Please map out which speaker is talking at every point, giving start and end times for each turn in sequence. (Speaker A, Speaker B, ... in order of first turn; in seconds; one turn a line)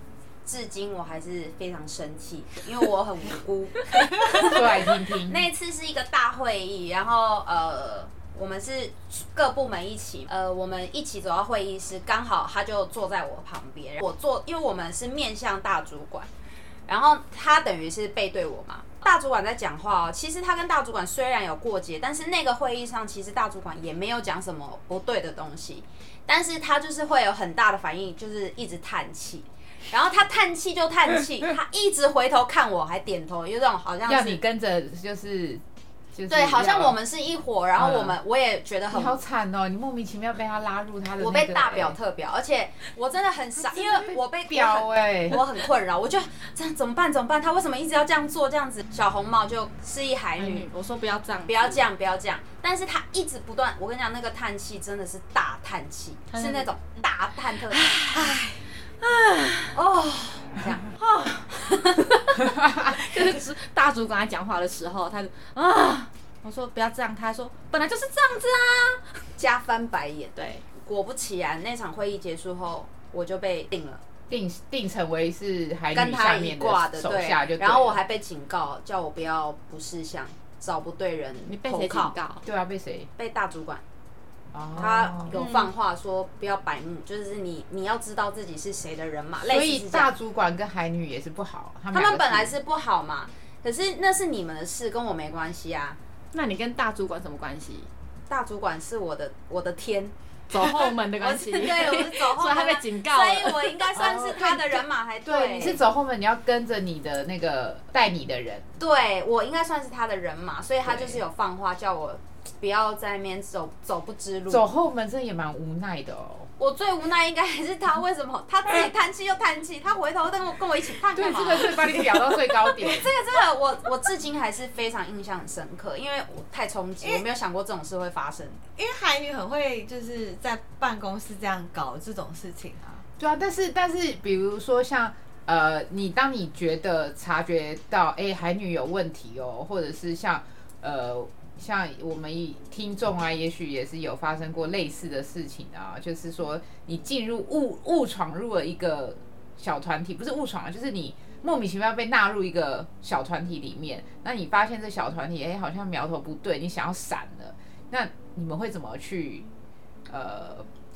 Speaker A: 0.4-16.3
Speaker B: 4.3-5.5
Speaker A: 16.9-34.4
Speaker B: 34.0-35.6
Speaker B: 36.1-37.0
Speaker A: 36.3-39.2
Speaker B: 37.8-38.2
Speaker B: 38.9-42.0
Speaker A: 41.2-50.7
Speaker B: 43.6-45.4
Speaker C: 50.4-51.8
Speaker A: 51.5-57.9
Speaker C: 56.3-56.7
Speaker C: 57.7-59.8
Speaker A: 59.7-60.9
Speaker C: 61.0-61.7
Speaker A: 61.6-62.1
Speaker C: 62.7-69.0
Speaker A: 69.4-74.0
Speaker C: 70.3-70.6
Speaker B: 74.3-78.0
Speaker A: 75.9-82.2
Speaker C: 81.5-82.4
Speaker B: 82.4-83.1
Speaker A: 83.2-83.8
Speaker B: 84.5-85.4
Speaker A: 84.7-90.1
Speaker D: 85.3-85.7
Speaker B: 89.4-92.5
Speaker A: 91.9-96.0
Speaker C: 96.3-97.9
Speaker A: 98.3-100.1
Speaker C: 100.5-104.1
Speaker A: 101.2-105.8
Speaker B: 103.9-108.7
Speaker A: 108.8-114.7
Speaker B: 110.8-111.2
Speaker B: 114.5-116.5
Speaker A: 116.6-122.0
Speaker B: 121.1-123.1
Speaker D: 121.8-122.2
Speaker A: 122.6-128.6
Speaker D: 128.8-133.0
Speaker B: 133.2-159.5
Speaker B: 160.1-160.7